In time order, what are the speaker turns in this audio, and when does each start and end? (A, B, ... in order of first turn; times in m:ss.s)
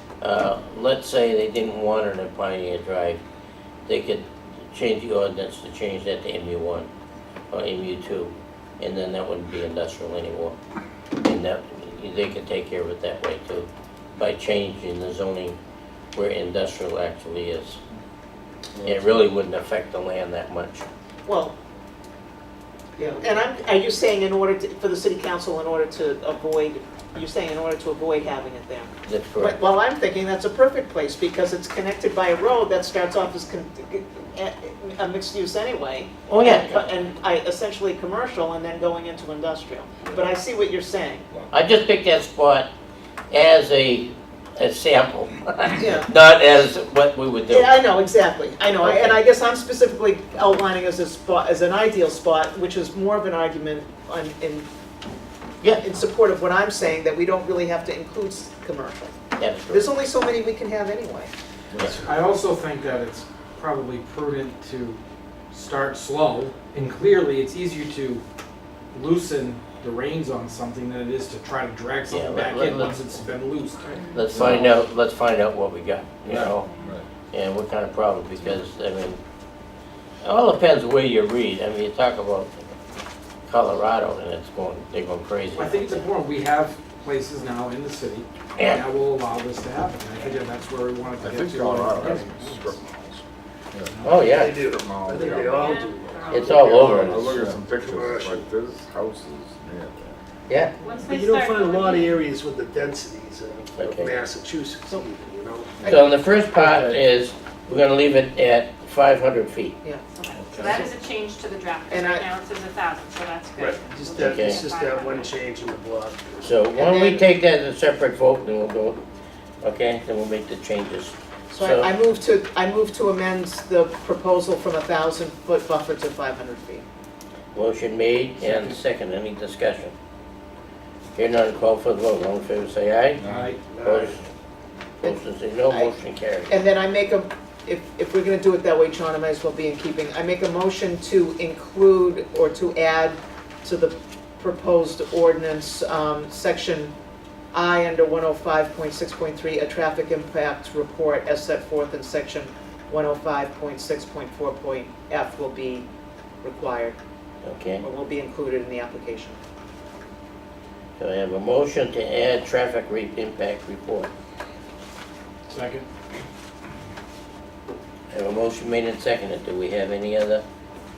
0:00.2-0:03.2 A
0:03.9-0:06.9 A
0:07.5-0:10.6 A
0:11.2-0:15.6 A
0:16.2-0:17.8 A
0:18.8-0:19.1 B
0:18.8-0:20.9 A
0:21.3-0:21.6 C
0:23.0-0:41.2 C
0:29.1-0:29.6 A
0:36.3-0:36.9 A
0:41.5-0:42.7 A
0:43.3-0:47.8 A
0:45.8-0:46.1 C
0:47.5-0:54.7 C
0:48.8-0:49.2 A
0:55.8-0:59.1 C
0:59.4-0:59.9 A
0:59.7-1:01.3 C
1:01.7-1:02.0 B
1:01.8-1:08.2 D
1:08.9-1:14.5 D
1:12.1-1:13.1 A
1:13.9-1:14.7 E
1:14.1-1:16.7 A
1:16.3-1:17.0 B
1:16.6-1:17.0 E
1:17.3-1:19.2 A
1:20.2-1:22.7 A
1:23.5-1:26.1 A
1:25.5-1:32.9 D
1:28.6-1:28.8 A
1:31.2-1:33.9 B
1:33.9-1:34.3 D
1:34.0-1:34.6 A
1:34.3-1:38.5 F
1:34.6-1:35.7 B
1:35.4-1:36.7 E
1:36.3-1:37.4 A
1:36.8-1:40.2 B
1:40.5-1:40.7 A
1:40.8-1:42.2 E
1:41.0-1:46.1 F
1:43.8-1:44.1 A
1:45.9-1:49.8 A
1:50.1-1:55.4 E
1:50.6-1:50.9 C
1:51.9-1:52.3 C
1:53.6-1:56.6 F
1:54.2-1:54.6 A
1:56.4-1:59.0 A
1:56.8-1:57.3 C
1:59.6-2:01.9 A
2:01.5-2:06.8 C
2:07.5-2:09.9 A
2:08.4-2:08.8 D
2:11.1-2:13.2 A
2:13.2-2:13.5 B
2:13.2-2:13.6 D
2:13.6-2:14.2 F
2:13.8-2:14.2 A
2:15.0-2:16.6 A
2:15.0-2:16.0 C
2:16.5-2:26.9 C
2:27.5-2:35.9 C
2:36.4-2:37.0 C
2:37.4-2:37.8 A
2:37.8-2:39.4 C
2:41.0-2:44.1 A
2:45.5-2:45.9 D
2:48.1-2:50.4 A